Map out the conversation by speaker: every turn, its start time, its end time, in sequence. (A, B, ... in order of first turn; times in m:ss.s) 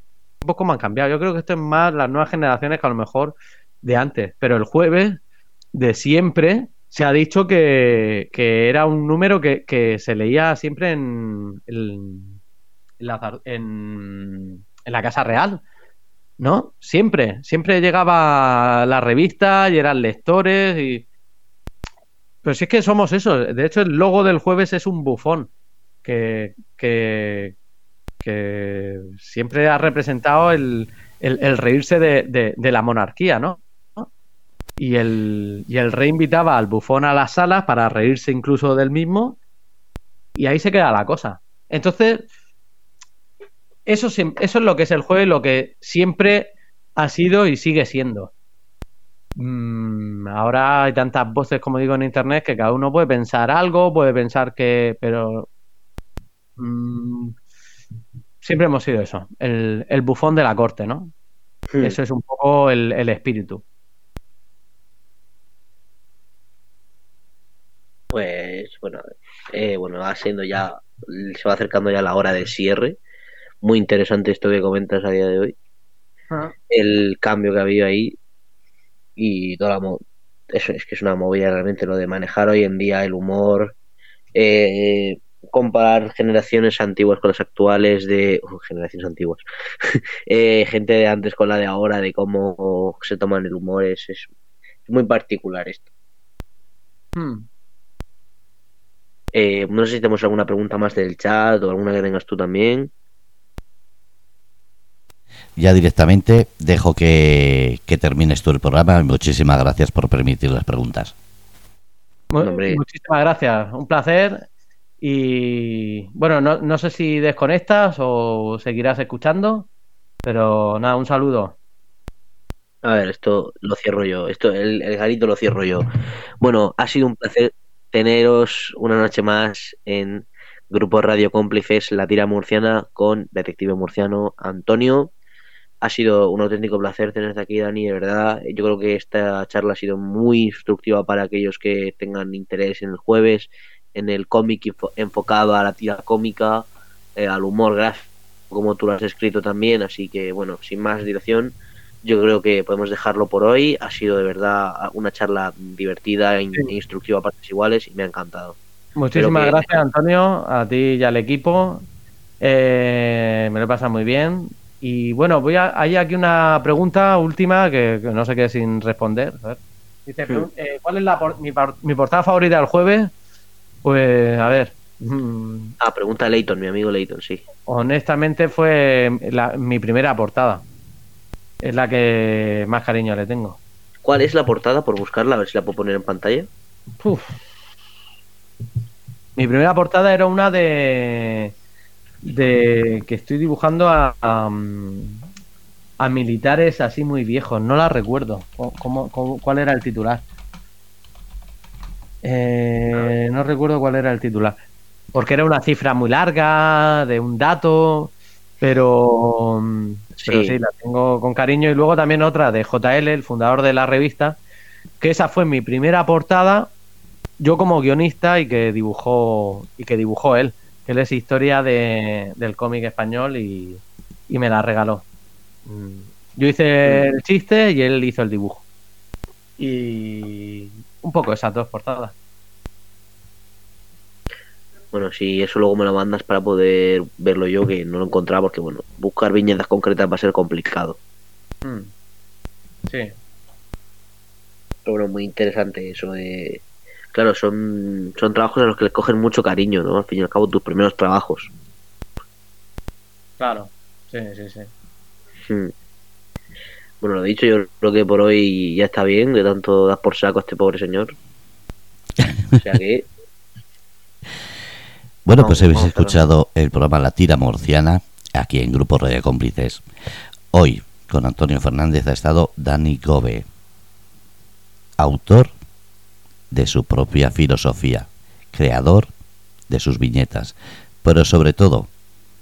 0:00.4-0:05.2 A
0:05.8-0:12.4 A
0:13.0-0:15.6 A
0:16.4-0:21.1 A
0:22.4-0:25.5 A
0:26.0-0:27.6 A
0:28.2-0:34.1 A
0:34.8-0:39.4 A
0:40.4-0:42.3 A
0:43.9-0:48.3 A
0:49.4-0:55.5 A
0:56.6-0:57.4 A
0:58.4-1:01.1 A
1:01.7-1:02.0 B
1:01.8-1:03.6 A
1:08.1-1:13.0 B
1:13.6-1:15.6 B
1:16.7-1:18.2 B
1:19.2-1:23.8 B
1:24.4-1:34.3 B
1:34.9-1:35.9 B
1:37.2-1:37.5 A
1:39.3-1:42.9 B
1:45.6-1:51.1 C
1:52.3-1:54.5 A
1:52.4-1:52.8 B
1:55.0-1:59.7 A
2:00.2-2:01.6 A
2:02.8-2:05.9 B
2:06.4-2:15.1 B
2:15.8-2:38.6 B
2:39.0-2:41.9 A
2:39.2-2:39.7 B
2:42.4-2:53.1 A
2:53.8-2:55.8 A
2:55.8-2:57.4 B
2:57.7-3:00.7 A
3:01.6-3:03.6 A
3:04.0-3:06.5 B
3:07.0-3:07.4 A
3:09.4-3:11.5 A
3:12.2-3:15.2 A
3:16.0-3:20.2 A
3:22.2-3:24.6 A
3:25.1-3:34.4 A
3:30.2-3:30.6 B
3:35.0-3:36.7 A
3:37.4-3:45.0 A
3:45.7-3:48.6 A
3:49.6-3:52.1 A
3:54.9-4:01.0 B
4:01.6-4:01.9 A
4:02.9-4:03.1 A
4:04.9-4:11.5 B
4:13.4-4:14.7 A
4:15.5-4:15.7 B
4:17.0-4:21.2 B
4:22.6-4:23.1 B
4:25.2-4:29.8 C
4:25.4-4:26.2 B
4:30.5-4:33.5 C
4:35.0-4:35.5 C
4:36.5-4:39.1 C
4:39.7-4:41.9 C